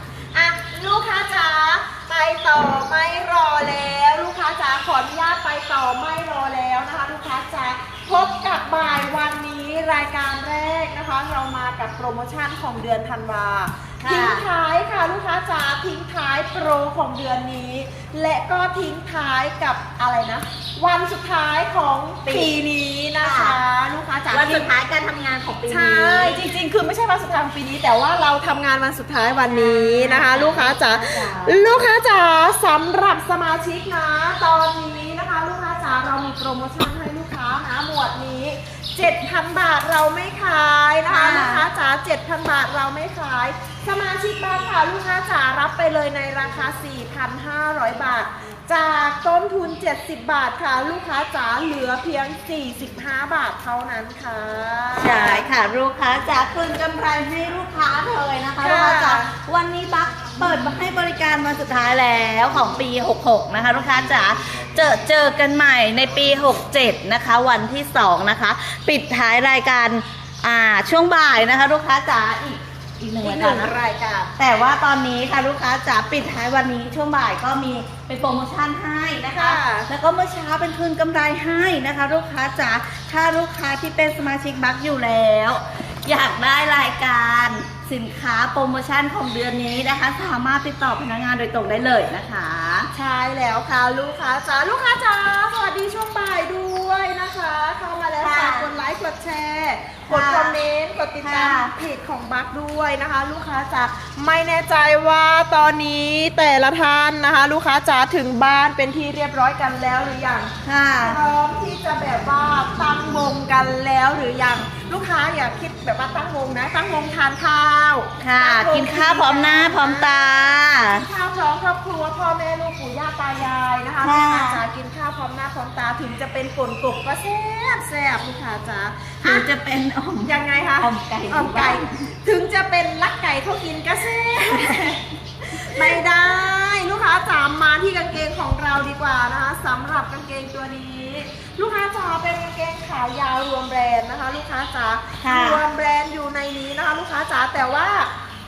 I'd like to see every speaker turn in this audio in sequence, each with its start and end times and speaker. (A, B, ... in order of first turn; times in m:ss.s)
0:00.3-0:24.7 A
0:14.0-0:14.4 B
0:22.2-0:22.5 B
0:23.2-0:23.6 B
0:24.3-0:26.4 B
0:25.7-0:55.5 A
0:29.5-0:31.8 B
0:41.1-0:41.6 B
0:55.0-1:13.7 B
0:58.6-0:59.3 A
1:13.2-1:14.3 A
1:14.4-1:32.9 B
1:19.3-1:19.9 A
1:32.9-2:09.5 A
1:38.2-1:38.7 B
1:40.1-1:40.6 B
1:41.2-1:41.7 B
1:50.6-1:51.2 B
1:58.2-2:01.0 B
2:04.0-2:04.6 B
2:09.2-2:11.9 B
2:10.2-2:28.1 A
2:25.2-2:25.6 B